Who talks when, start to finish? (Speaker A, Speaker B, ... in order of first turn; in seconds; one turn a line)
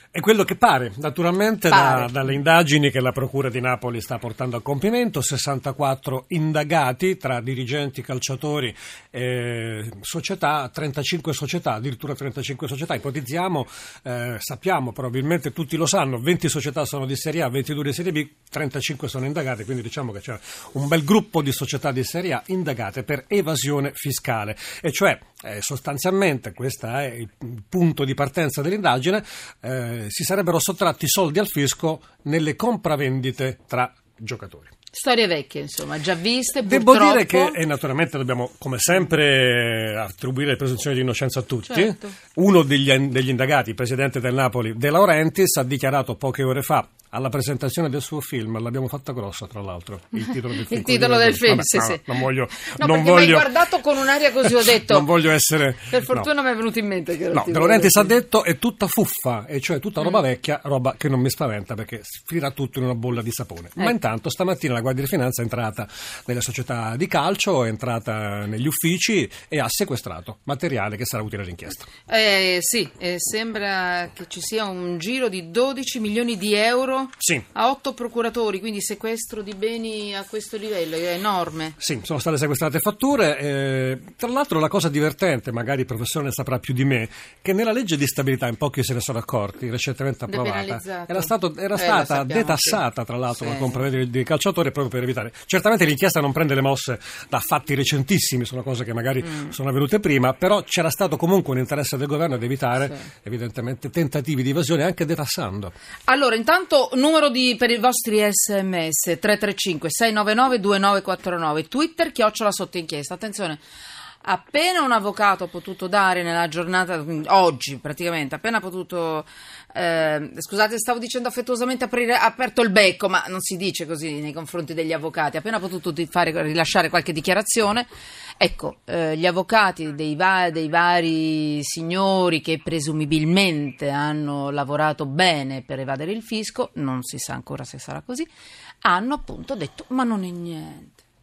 Speaker A: 0.1-34.7
Speaker B: 1.7-2.1
Speaker B: 34.9-37.6
Speaker A: 36.7-53.5
Speaker B: 41.7-42.1
Speaker B: 50.7-52.0
Speaker B: 52.8-55.1
Speaker A: 54.4-56.3
Speaker B: 55.9-58.1
Speaker A: 57.3-71.9
Speaker B: 72.1-81.8
Speaker A: 81.8-105.7
Speaker B: 90.3-92.8
Speaker B: 93.4-93.8
Speaker B: 106.1-113.6
Speaker B: 114.2-127.9
Speaker B: 128.4-138.3
Speaker B: 138.8-141.0